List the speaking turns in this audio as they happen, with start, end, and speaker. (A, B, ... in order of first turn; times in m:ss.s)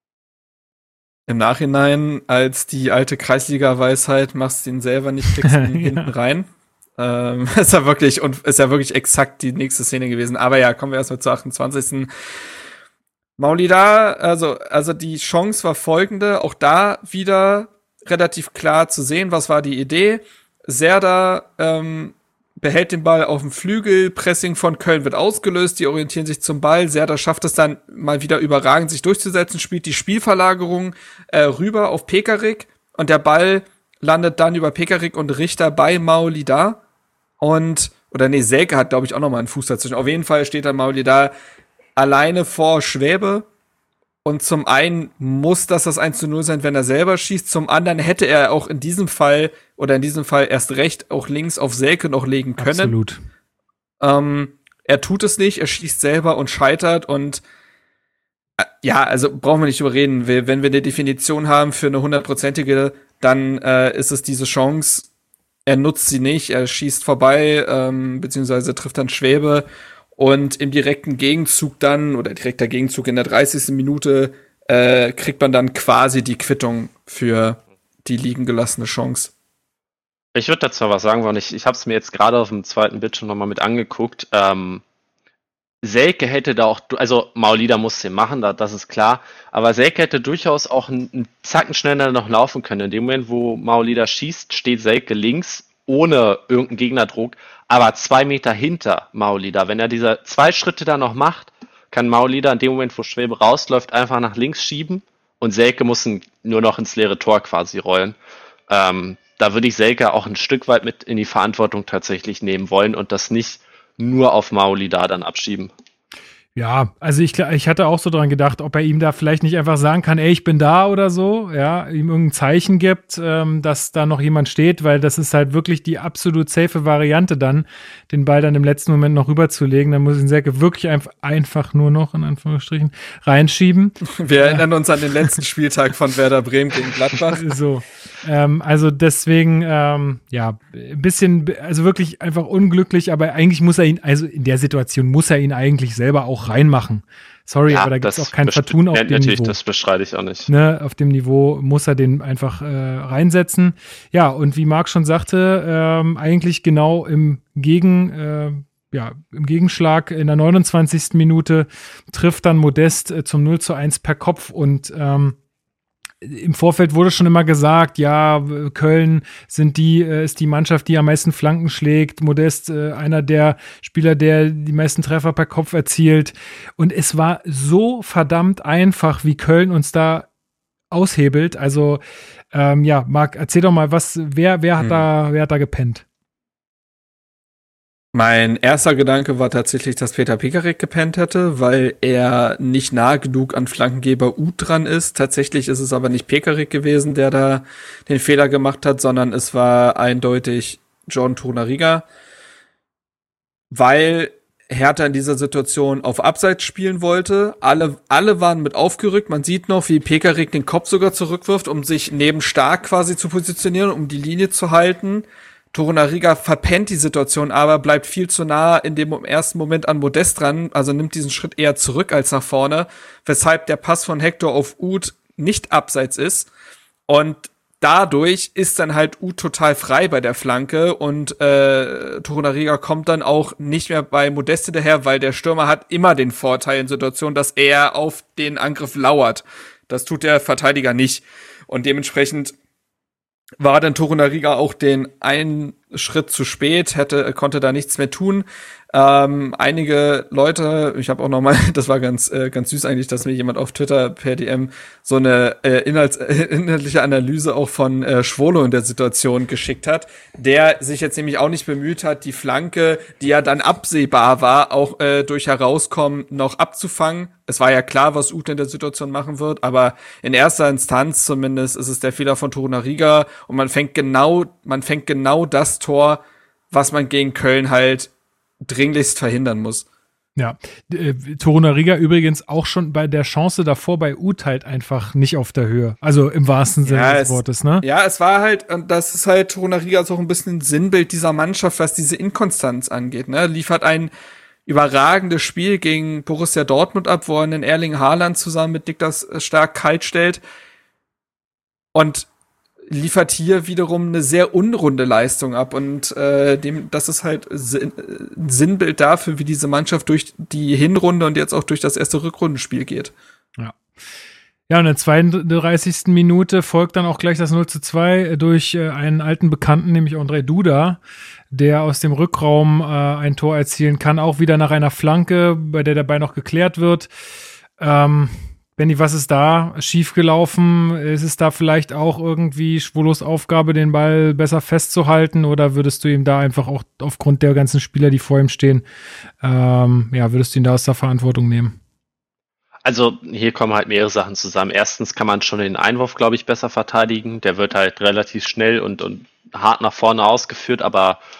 0:01.3-0:12.1 A
0:05.4-0:06.1 B
0:13.4-0:36.8 A
0:37.4-0:41.3 A
0:42.0-0:43.5 A
0:44.2-0:53.0 A
0:52.6-0:53.2 B
0:54.0-0:57.4 A
0:58.6-1:05.1 A
1:05.6-1:19.3 A
1:20.3-1:24.8 C
1:25.8-1:48.1 C
1:48.7-1:55.7 C
1:56.6-2:14.6 B
2:14.2-2:17.4 A
2:17.3-2:29.5 B
2:27.7-2:30.5 C
2:30.5-2:45.4 B
2:46.2-3:00.3 B
3:00.9-3:02.0 B
3:02.5-3:06.0 B
3:04.8-3:05.0 A
3:08.1-3:22.0 A
3:23.7-3:46.5 A
3:47.1-4:02.5 A
4:03.6-4:38.1 A
4:38.6-4:39.8 A
4:40.4-4:47.8 B
4:46.8-4:54.1 A
4:54.6-5:00.4 A
5:01.9-5:02.3 A
5:02.9-5:13.1 A
5:14.7-5:21.0 B
5:21.5-5:27.1 B
5:27.8-5:38.8 B
5:39.4-5:41.8 B
5:42.8-5:51.2 C